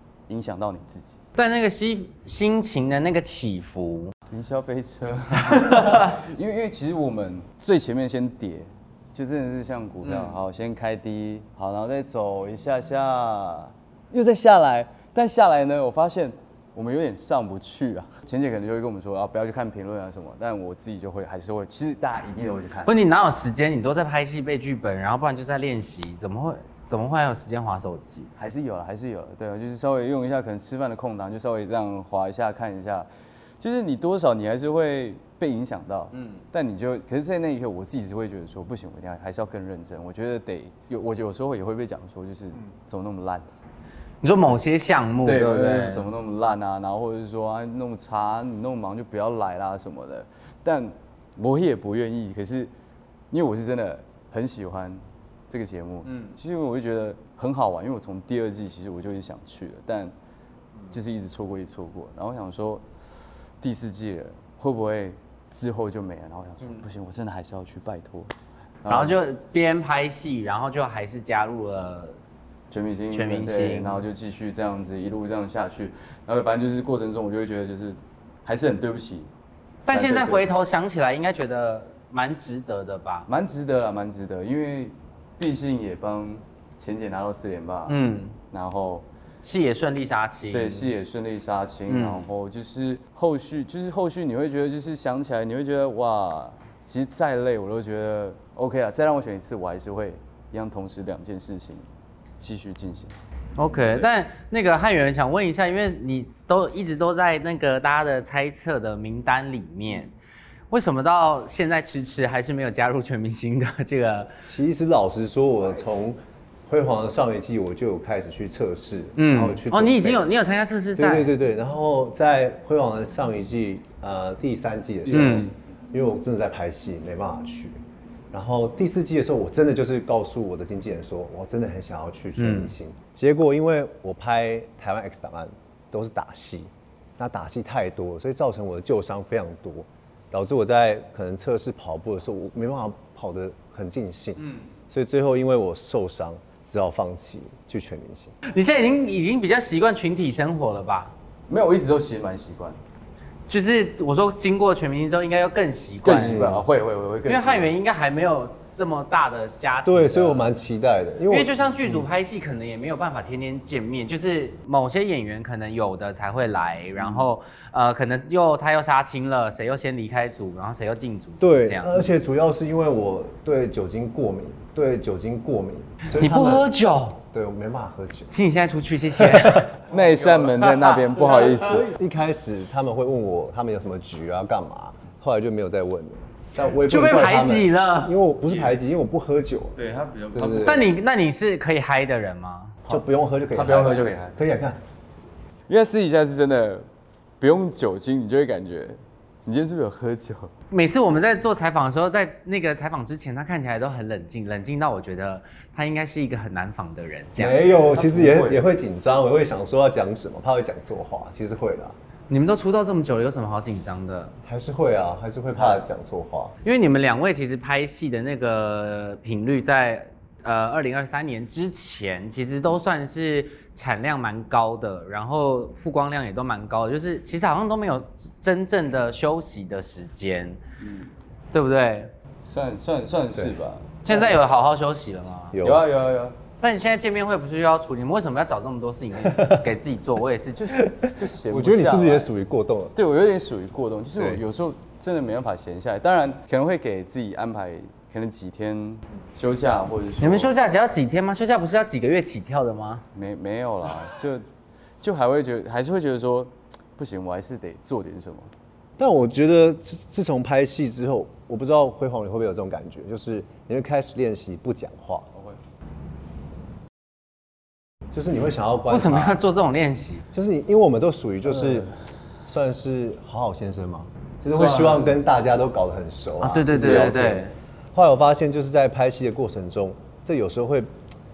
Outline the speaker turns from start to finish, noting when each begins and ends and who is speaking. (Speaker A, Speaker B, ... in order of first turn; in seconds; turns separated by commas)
Speaker A: 0.3-1.2, Speaker B: 1.3-4.1, Speaker A: 4.3-22.9, Speaker B: 5.5-6.2, Speaker B: 10.0-10.4, Speaker B: 22.9-28.3, Speaker A: 28.4-33.1, Speaker A: 33.6-43.4, Speaker B: 44.2-46.1, Speaker A: 45.2-52.7, Speaker A: 53.3-60.1, Speaker B: 56.0-56.3, Speaker A: 60.9-62.8, Speaker A: 63.6-68.3, Speaker A: 68.8-69.2, Speaker B: 68.9-72.2, Speaker A: 72.7-79.3, Speaker B: 73.1-74.0, Speaker B: 79.9-83.3, Speaker A: 79.9-80.5, Speaker A: 83.3-88.0, Speaker B: 87.9-88.3, Speaker A: 88.5-89.0, Speaker B: 89.4-90.9, Speaker A: 90.5-101.8, Speaker B: 91.9-92.2, Speaker A: 102.4-103.1, Speaker B: 103.6-110.1, Speaker B: 110.7-114.3, Speaker C: 114.4-120.2, Speaker B: 119.2-121.3, Speaker C: 121.0-127.8, Speaker A: 125.1-125.4, Speaker B: 125.1-125.5, Speaker C: 128.3-148.3, Speaker B: 132.4-132.7, Speaker B: 148.4-151.1, Speaker A: 151.5-152.8, Speaker B: 153.5-156.4, Speaker A: 156.0-157.7, Speaker C: 156.1-156.7, Speaker B: 157.3-160.5, Speaker C: 159.8-162.1, Speaker B: 161.3-172.1, Speaker A: 167.0-167.2, Speaker C: 171.4-176.7, Speaker B: 176.1-177.2, Speaker C: 177.3-178.3, Speaker B: 178.3-179.8, Speaker C: 179.2-189.8, Speaker A: 179.9-181.9, Speaker B: 180.6-181.4, Speaker B: 186.8-188.7, Speaker A: 189.7-190.9, Speaker C: 190.3-190.8, Speaker B: 190.6-192.7, Speaker A: 192.8-194.4, Speaker C: 192.9-194.8, Speaker A: 195.7-196.8, Speaker A: 197.4-200.5, Speaker B: 200.7-207.6, Speaker C: 207.4-211.9, Speaker A: 207.7-208.7, Speaker B: 212.3-214.3, Speaker C: 214.4-216.5, Speaker A: 215.5-215.9, Speaker B: 216.6-230.6, Speaker A: 230.8-231.1, Speaker B: 231.5-232.1, Speaker A: 232.4-234.4, Speaker B: 234.0-235.6, Speaker C: 235.5-235.9, Speaker A: 235.6-236.4, Speaker B: 236.6-240.8, Speaker A: 240.5-242.3, Speaker C: 240.7-242.9, Speaker A: 242.9-250.5, Speaker C: 244.2-244.4, Speaker B: 250.2-253.0, Speaker A: 253.1-254.4, Speaker A: 255.0-258.5, Speaker C: 259.0-265.3, Speaker A: 265.3-265.6, Speaker C: 268.1-269.4, Speaker B: 268.9-270.2, Speaker C: 270.3-271.9, Speaker A: 271.5-271.8, Speaker C: 272.4-280.9, Speaker A: 274.4-275.2, Speaker B: 276.4-277.5, Speaker A: 276.7-277.2